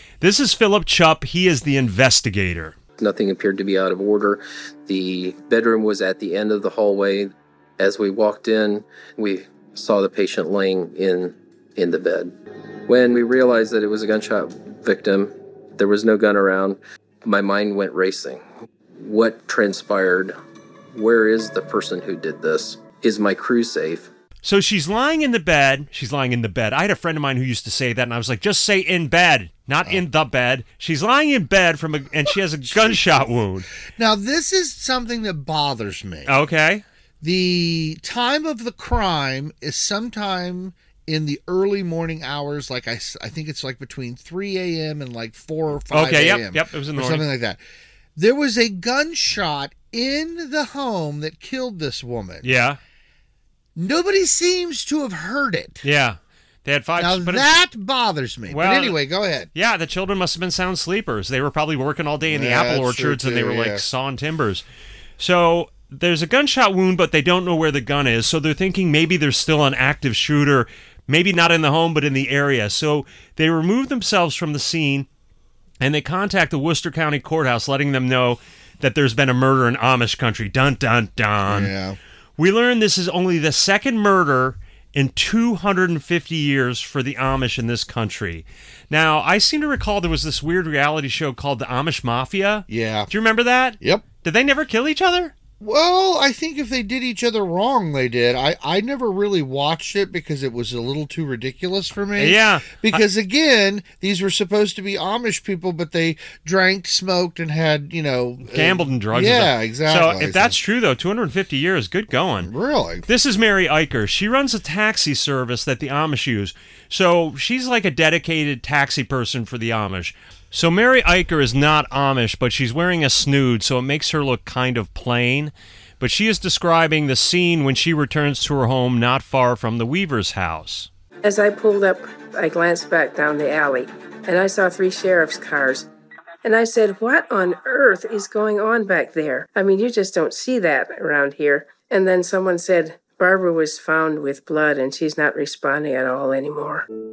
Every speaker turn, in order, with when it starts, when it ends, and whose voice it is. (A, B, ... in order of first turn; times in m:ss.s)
0:00.2-0:02.7 A
0:03.0-0:12.3 B
0:12.9-0:18.4 B
0:19.0-0:20.3 B
0:20.9-0:24.1 B
0:24.4-0:33.7 A
0:32.7-0:33.0 C
0:34.0-0:36.3 C
0:36.3-0:36.8 A
0:37.2-0:47.6 C
0:45.9-0:47.3 A
0:48.2-0:52.5 C
0:52.4-0:52.8 A
0:53.8-0:55.8 C
0:55.8-0:57.5 A
0:57.0-0:59.5 C
0:58.5-0:59.0 A
0:59.5-1:04.6 A
1:02.3-1:03.8 C
1:05.2-1:15.1 A
1:15.8-1:21.7 A
1:21.4-1:22.0 C
1:22.4-1:35.3 A
1:32.7-1:33.1 C
1:35.6-1:50.6 C
1:42.2-1:43.0 A
1:48.5-1:52.5 A
1:52.4-1:53.0 C
1:53.0-2:10.9 A
2:11.2-2:15.9 D
2:16.4-2:26.8 D